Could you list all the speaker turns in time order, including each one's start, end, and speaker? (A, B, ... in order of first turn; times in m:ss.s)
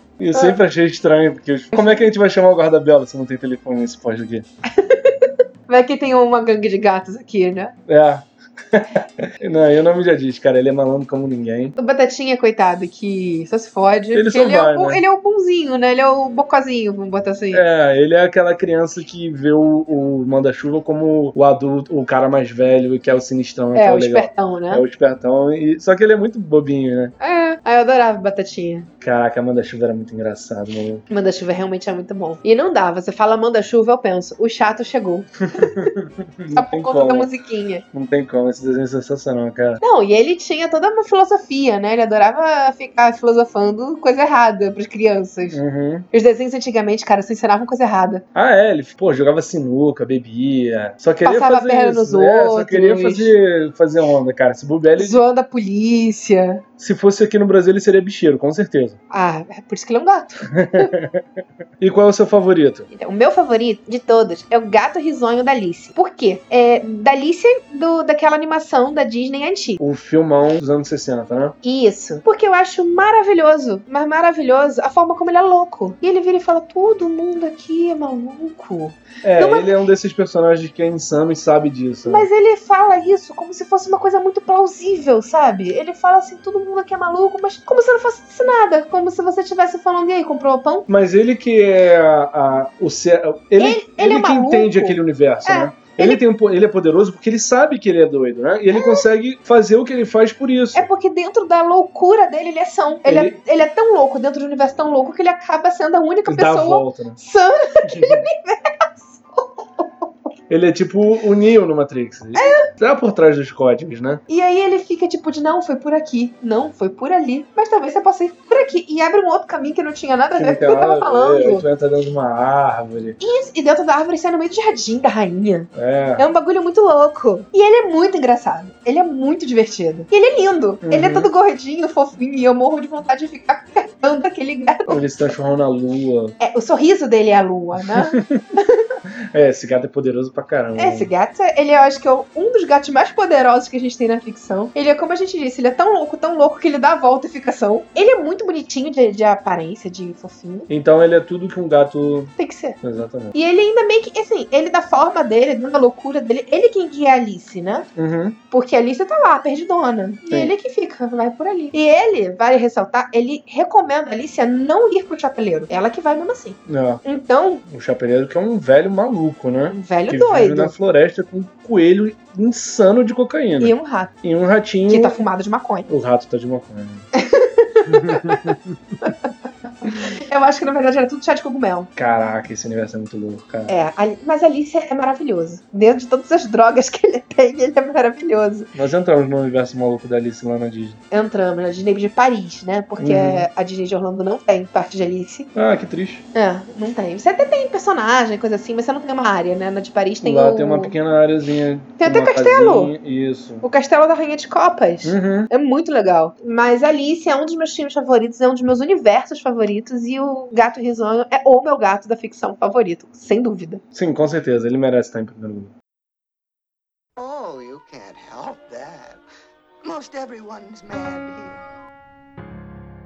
0:00.2-0:04.4 A
0:01.7-0:02.1 B
0:04.7-0:07.8 B
0:07.9-0:11.8 A
0:11.8-0:17.6 B
0:14.1-0:15.0 A
0:17.5-0:27.1 A
0:23.7-0:24.8 B
0:27.2-0:28.9 B
0:29.0-0:31.0 A
0:31.1-0:35.9 B
0:35.5-0:37.3 A
0:36.5-0:37.8 B
0:37.9-0:39.8 A
0:39.8-0:45.6 B
0:45.5-0:46.1 A
0:46.1-0:48.2 B
0:48.4-0:55.2 A
0:51.2-0:53.3 B
0:55.0-0:56.6 B
0:56.8-0:59.0 A
0:59.1-1:00.9 B
1:00.5-1:01.2 A
1:01.8-1:02.9 A
1:02.9-1:09.8 B
1:09.8-1:11.6 A
1:11.6-1:19.8 B
1:19.2-1:22.3 A
1:22.1-1:30.9 B
1:30.9-1:40.9 A
1:33.6-1:36.2 B
1:38.7-1:39.1 B
1:40.8-1:50.3 B
1:43.0-1:43.4 A
1:46.3-1:47.2 A
1:47.8-1:48.2 A
1:50.5-1:54.2 A
1:52.4-1:52.7 B
1:54.3-2:01.6 B
2:00.4-2:03.2 A
2:03.2-2:15.0 B
2:05.7-2:06.2 A
2:10.8-2:11.3 A
2:14.9-2:16.4 A
2:16.4-2:19.0 B
2:18.0-2:18.4 A
2:19.3-2:21.1 A
2:20.8-2:30.7 B
2:30.7-2:33.4 A
2:32.4-2:32.8 B
2:33.3-2:37.9 B
2:38.0-2:38.4 A
2:38.5-2:47.6 B
2:46.7-2:47.0 A
2:47.7-2:55.2 A
2:49.7-2:50.7 B
2:53.6-2:54.1 B
2:54.9-2:55.9 B
2:55.9-2:57.1 A
2:57.1-2:59.3 B
2:57.9-2:58.8 A
2:59.8-3:01.9 B
3:02.0-3:03.7 A
3:03.7-3:08.7 B
3:08.7-3:11.0 A
3:11.1-3:15.5 B
3:13.0-3:13.5 A
3:15.6-3:16.2 A
3:16.3-3:20.9 B
3:20.2-3:23.6 A
3:22.0-3:22.9 B
3:23.6-3:33.8 B
3:25.0-3:25.5 A
3:33.9-3:35.7 A
3:37.2-3:39.2 C
3:39.8-3:41.6 C